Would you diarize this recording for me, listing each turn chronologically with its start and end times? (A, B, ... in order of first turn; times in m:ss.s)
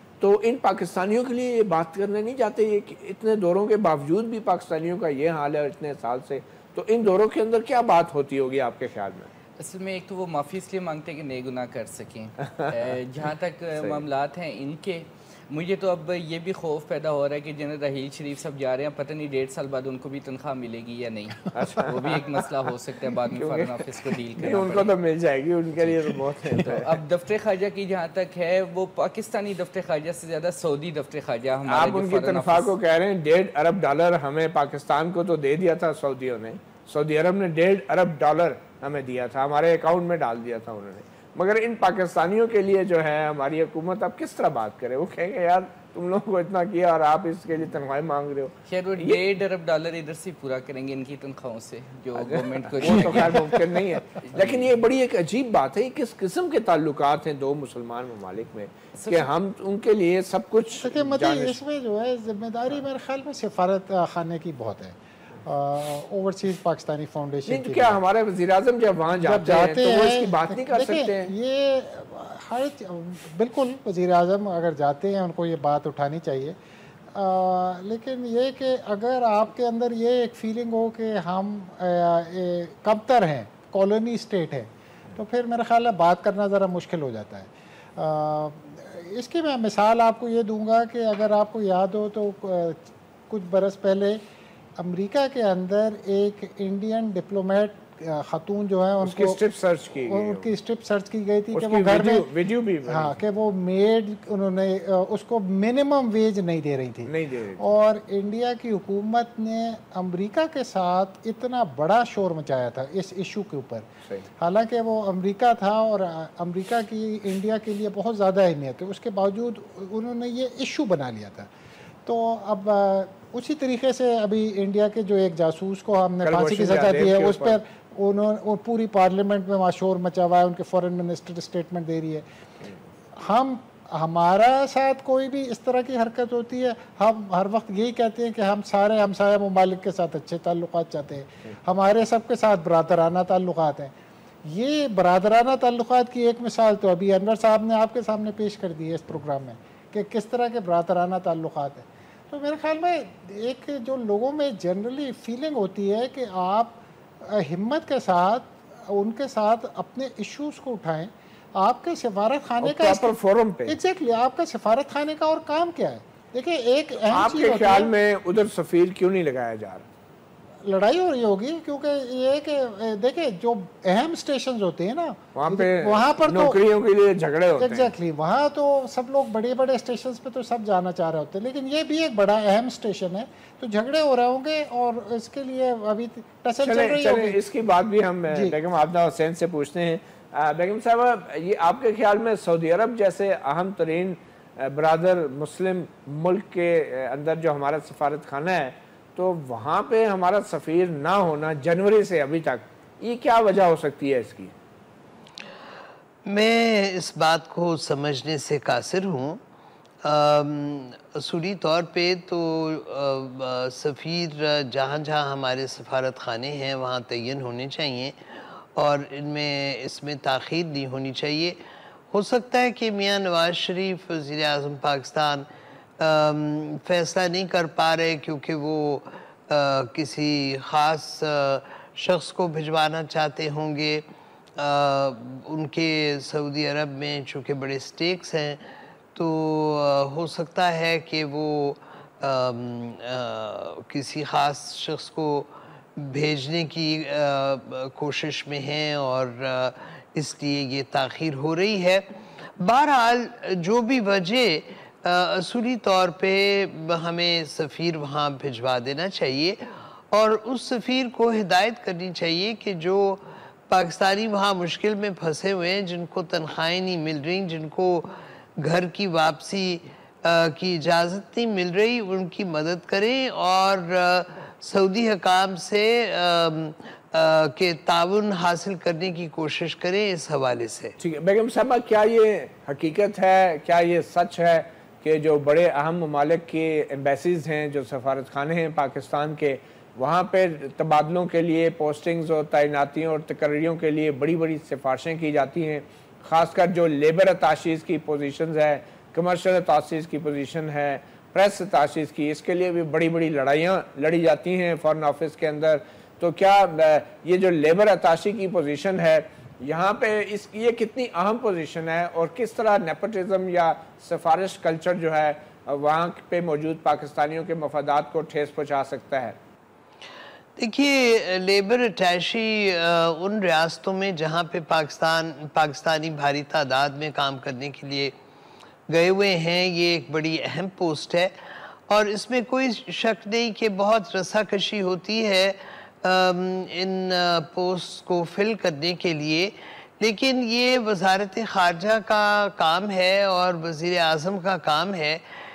0:00.2-0:09.3 A
0:09.6-0:24.9 B
0:21.5-0:22.4 A
0:23.3-0:27.0 A
0:26.5-0:32.7 B
0:31.7-0:49.2 A
0:48.7-0:53.5 B
0:52.2-1:01.6 A
0:54.2-0:54.6 B
0:59.0-0:59.3 B
1:00.8-1:08.0 C
1:07.5-1:11.3 A
1:09.2-1:16.6 C
1:17.1-1:34.2 C
1:34.8-1:39.4 C
1:39.0-1:40.5 A
1:40.1-1:42.3 C
1:41.5-1:43.2 A
1:42.9-1:53.9 C
1:47.1-1:47.7 A
1:54.4-2:01.5 C
2:02.0-2:12.2 C
2:06.2-2:07.6 A
2:13.2-2:23.9 C
2:24.4-2:43.2 C
2:42.6-2:43.8 A
2:43.7-2:47.9 C
2:47.1-2:49.9 A
2:50.6-2:56.6 C
2:55.3-2:57.9 A
2:57.6-3:07.4 C
3:06.6-3:24.6 A
3:08.3-3:08.6 C
3:26.3-3:29.4 D
3:30.0-3:41.6 D
3:42.1-3:45.5 D
3:46.0-3:54.0 D
3:54.6-4:41.0 D
4:41.0-5:19.4 A
5:20.6-5:28.1 D
5:28.9-5:31.3 D
5:31.9-5:45.2 D